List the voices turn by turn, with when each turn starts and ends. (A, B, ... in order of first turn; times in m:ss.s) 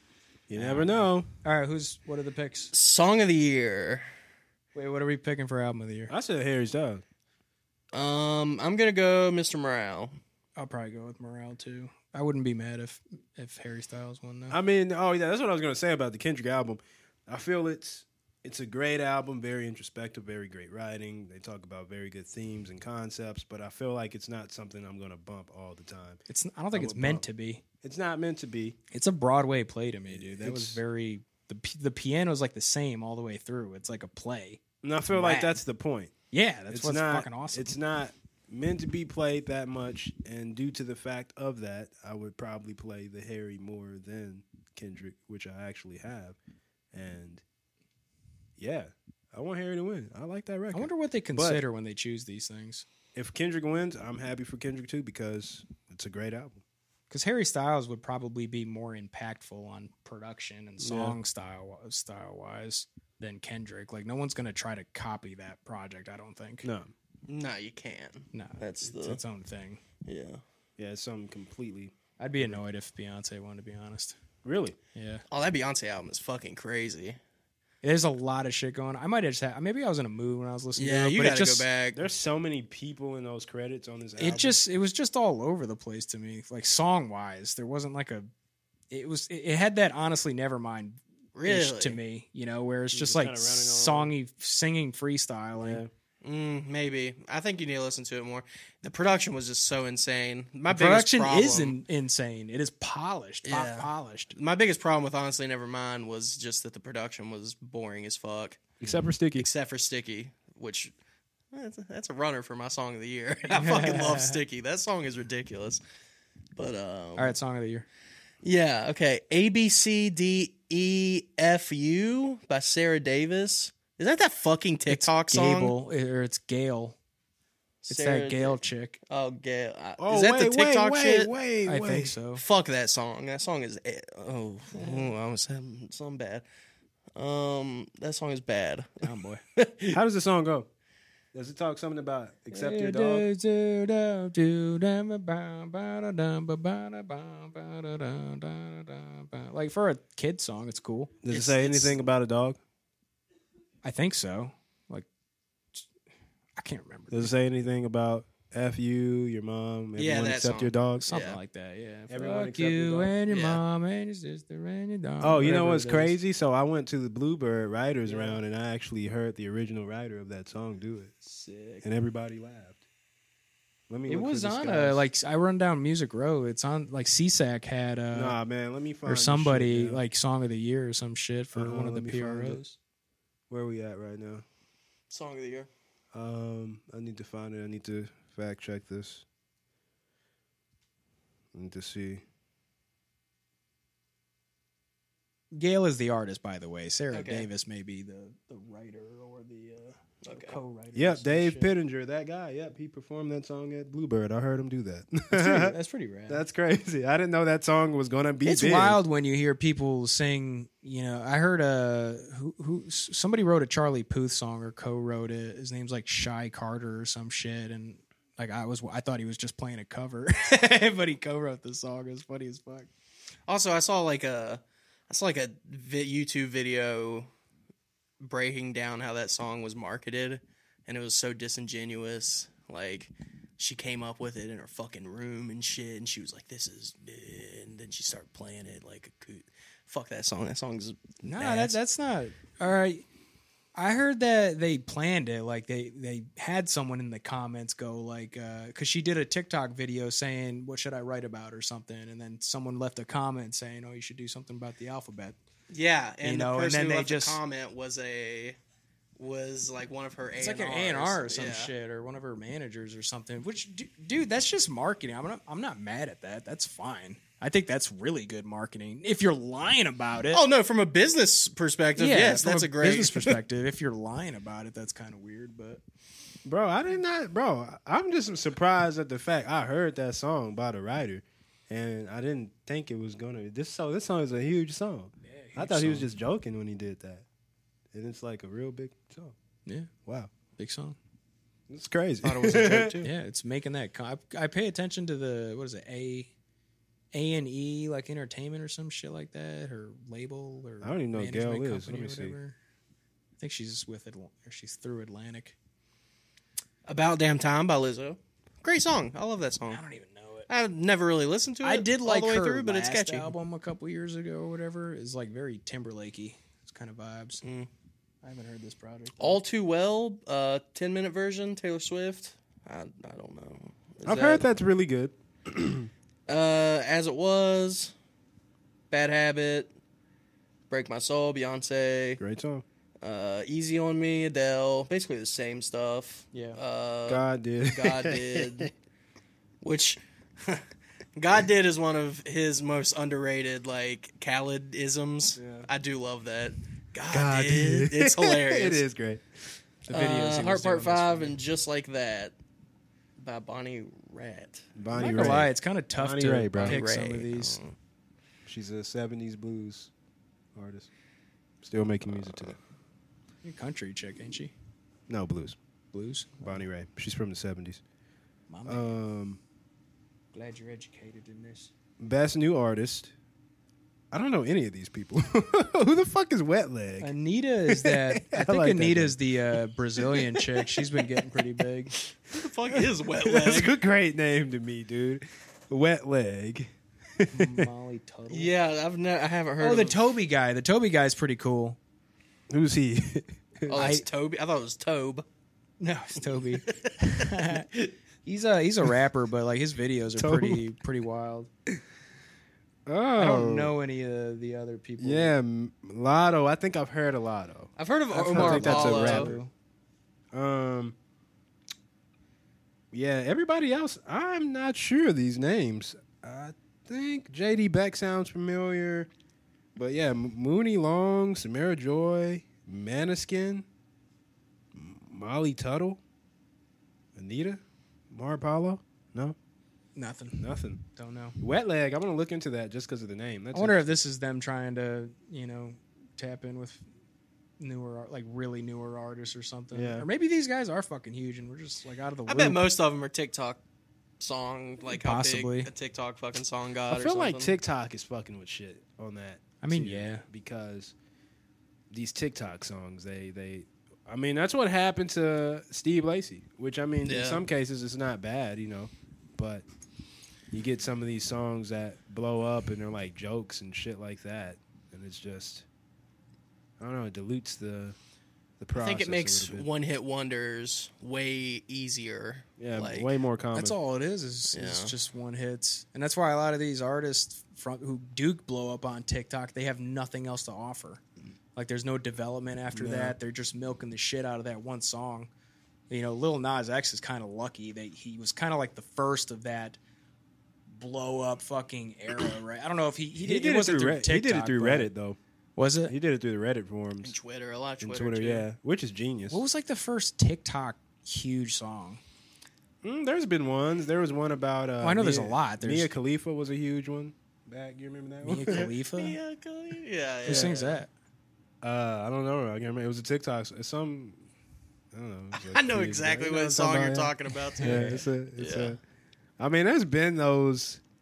0:00.5-0:01.3 A
0:00.5-0:02.7 B
0:02.7-0:04.1 C
0:04.8-0:06.1 B
0:06.1-0:07.0 A
0:07.9-0:10.1 C
0:10.6-0:14.6 B
0:14.5-0:26.2 A
0:26.3-0:27.6 B
0:26.7-0:27.2 A
0:27.8-0:28.8 A
0:28.9-0:35.6 B
0:30.1-0:30.8 A
0:34.8-0:36.1 A
0:36.3-0:37.7 B
0:36.7-0:46.4 A
0:46.9-0:47.4 A
0:48.6-0:51.6 A
0:50.7-0:52.9 B
0:53.1-0:56.6 A
0:57.1-1:06.7 B
1:00.8-1:01.2 A
1:06.6-1:06.9 A
1:07.3-1:09.2 C
1:08.3-1:09.8 B
1:10.0-1:10.4 C
1:10.8-1:12.6 A
1:12.2-1:14.2 B
1:14.4-1:14.8 A
1:14.9-1:15.2 B
1:15.3-1:17.2 C
1:17.8-1:21.6 B
1:20.8-1:22.0 C
1:21.9-1:24.6 A
1:24.2-1:28.3 B
1:28.9-1:35.8 B
1:31.4-1:32.0 C
1:32.9-1:34.1 A
1:35.6-1:35.9 A
1:36.2-1:41.8 C
1:40.7-1:44.4 B
1:43.4-1:48.7 C
1:48.8-1:49.5 A
1:49.4-1:50.9 C
1:51.5-1:55.8 C
1:53.5-1:54.4 B
1:56.6-1:57.4 C
1:57.2-1:57.9 B
1:58.4-2:05.7 C
2:04.9-2:07.0 B
2:07.8-2:11.3 C
2:07.9-2:09.0 B
2:10.0-2:12.2 A
2:11.6-2:12.4 B
2:12.3-2:16.4 C
2:14.7-2:15.1 B
2:17.2-2:20.0 C
2:19.0-2:19.4 B
2:19.9-2:20.7 A
2:21.3-2:23.3 A
2:22.5-2:31.1 B
2:31.2-2:32.6 A
2:31.3-2:32.0 C
2:33.8-2:35.1 B
2:36.6-2:37.3 B
2:37.1-2:41.1 A
2:40.0-2:41.4 C
2:41.0-2:46.2 B
2:42.1-2:43.1 A
2:43.3-2:43.6 C
2:45.2-2:51.1 A
2:48.1-2:48.4 B
2:51.3-2:51.8 B
2:51.8-2:52.8 A
2:53.9-2:55.1 A
2:54.1-2:58.4 B
2:58.1-3:00.0 A
2:59.1-3:02.8 B
3:01.6-3:02.6 A
3:03.5-3:04.4 A
3:05.1-3:05.7 C
3:06.1-3:09.2 A
3:11.5-3:12.2 A
3:15.5-3:21.7 B
3:17.1-3:17.5 C
3:20.2-3:20.6 C
3:20.9-3:25.8 A
3:25.3-3:26.4 B
3:26.3-3:29.0 A
3:28.4-3:42.9 B
3:43.5-3:47.3 C
3:48.2-4:01.8 C
4:01.2-4:03.0 B
4:03.8-4:15.4 B
4:15.7-4:18.6 C
4:16.2-4:17.4 B
4:19.2-4:21.7 C
4:20.4-4:30.4 B
4:30.3-4:33.4 C
4:32.0-4:35.8 B
4:36.4-4:47.2 A
4:45.2-4:46.1 B
4:47.9-4:49.4 A
4:49.6-4:49.9 B
4:50.0-4:50.3 A
4:50.6-4:51.0 B
4:51.7-4:53.1 A
4:52.2-4:53.0 C
4:52.6-4:56.3 B
4:57.1-5:02.6 B
5:00.8-5:02.4 A
5:03.4-5:05.6 B
5:06.9-5:09.8 C
5:09.7-5:10.5 B
5:10.5-5:13.3 C
5:11.6-5:17.4 B
5:17.4-5:17.7 C
5:18.2-5:19.4 B
5:19.2-5:24.4 C
5:24.0-5:25.9 A
5:26.3-5:27.9 C
5:28.9-5:29.7 C
5:30.7-5:32.2 C
5:32.2-5:32.6 A
5:33.0-5:38.7 C
5:36.3-5:36.6 B
5:37.1-5:38.7 A
5:39.6-5:40.6 C
5:41.2-5:48.8 C
5:45.4-5:45.7 A
5:47.1-5:49.3 A
5:49.9-5:51.4 B
5:49.9-5:52.4 C
5:53.2-5:54.7 C
5:54.8-5:56.8 A
5:54.9-5:57.6 B
5:56.6-5:57.7 C
5:58.4-5:59.9 A
6:00.6-6:00.9 A
6:01.6-6:02.6 A
6:03.4-6:04.5 B
6:05.1-6:05.6 A
6:05.9-6:06.6 B
6:06.4-6:07.8 A
6:08.5-6:08.9 B
6:08.7-6:09.4 A
6:10.3-6:11.7 B
6:12.0-6:13.1 A
6:14.1-6:17.1 A
6:17.0-6:21.9 B
6:17.7-6:21.4 A
6:22.3-6:23.7 C
6:22.7-6:27.7 A
6:27.3-6:28.5 B
6:28.3-6:30.0 C
6:29.6-6:31.8 B
6:32.5-6:33.9 A
6:33.7-6:34.0 B
6:33.7-6:35.2 C
6:35.8-6:37.7 B
6:36.5-6:37.9 C
6:38.2-6:41.5 B
6:40.2-6:40.6 A
6:42.9-6:43.7 A
6:43.2-6:45.4 B
6:45.0-6:47.7 A
6:47.8-6:49.3 C
6:48.1-6:49.5 B
6:48.3-6:49.4 A
6:50.3-6:51.0 A
6:52.9-6:59.1 A
6:59.8-7:03.7 A
7:04.7-7:06.0 A
7:07.1-7:09.4 A
7:10.0-7:11.4 B
7:10.4-7:10.8 A
7:11.4-7:14.0 A
7:13.5-7:16.8 B
7:17.6-7:22.6 B
7:19.7-7:20.1 A
7:22.3-7:23.6 C
7:24.2-7:27.6 C
7:24.9-7:25.7 B
7:26.9-7:30.9 A
7:29.6-7:30.2 B
7:31.9-7:39.6 A
7:37.0-7:37.4 C
7:40.5-7:45.7 A
7:46.8-7:48.0 A
7:48.6-7:49.7 A
7:48.7-7:53.1 C
7:52.6-7:53.8 A
7:53.5-8:01.0 B
7:54.5-7:54.9 C
8:01.6-8:05.3 B
8:02.7-8:03.2 A
8:05.9-8:09.8 B
8:10.7-8:14.9 B
8:13.2-8:15.2 A
8:15.6-8:15.9 B
8:15.9-8:17.1 A
8:17.0-8:18.5 C
8:17.8-8:19.4 A
8:19.3-8:22.0 B
8:22.8-8:28.7 A
8:24.8-8:25.9 B
8:28.2-8:29.2 B
8:28.5-8:30.8 C
8:30.2-8:30.9 B
8:30.3-8:30.5 A
8:31.6-8:34.2 A
8:34.9-8:38.8 A
8:35.3-8:38.8 C
8:37.6-8:38.0 B
8:39.4-8:40.8 A